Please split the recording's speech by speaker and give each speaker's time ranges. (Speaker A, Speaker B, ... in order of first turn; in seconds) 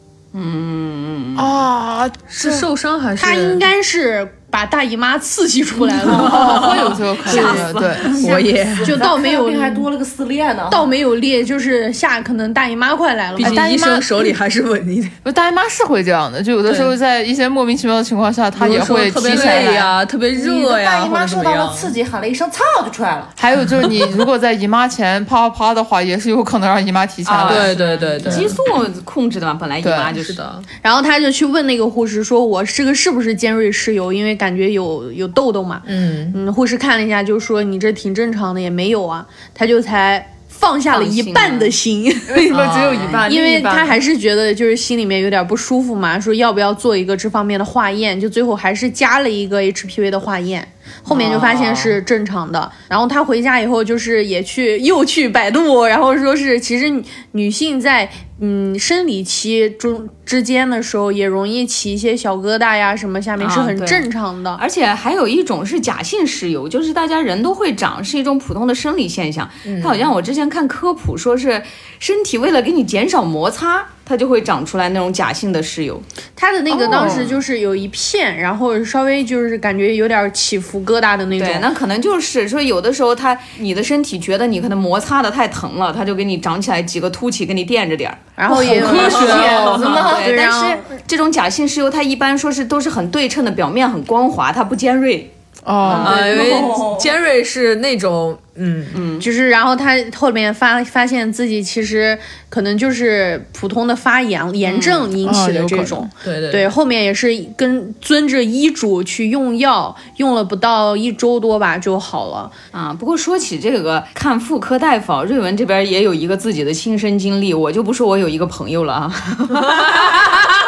Speaker A: 0.3-1.6, 7.2-8.4, 27.2-30.4, 40.9-41.7, 63.4-64.1, 64.6-76.0, 81.4-88.2, 88.9-95.3, 95.8-96.2, 98.9-99.2, 104.6-105.1, 112.7-120.5
Speaker B: 1.4-2.6, 6.0-8.3, 13.4-14.1, 15.2-20.0, 23.4-27.8, 29.8-30.1, 42.3-44.0, 76.7-77.3, 88.6-90.2, 95.7-96.3, 105.2-106.1
Speaker C: 2.3-3.6, 6.1-7.4, 8.1-9.0, 13.4-15.2, 16.6-16.9, 18.6-21.9, 27.4-28.6, 30.1-30.7, 35.9-36.4, 42.5-43.2, 51.1-52.0, 69.7-70.1, 88.9-89.6, 96.0-99.0, 106.2-106.7
Speaker D: 3.2-7.6, 8.8-9.9, 10.7-14.0, 30.8-42.6, 43.2-64.6, 76.4-81.7, 88.4-90.9, 99.2-112.5
Speaker E: 8.2-10.9, 20.3-23.3, 88.6-90.3, 95.8-97.1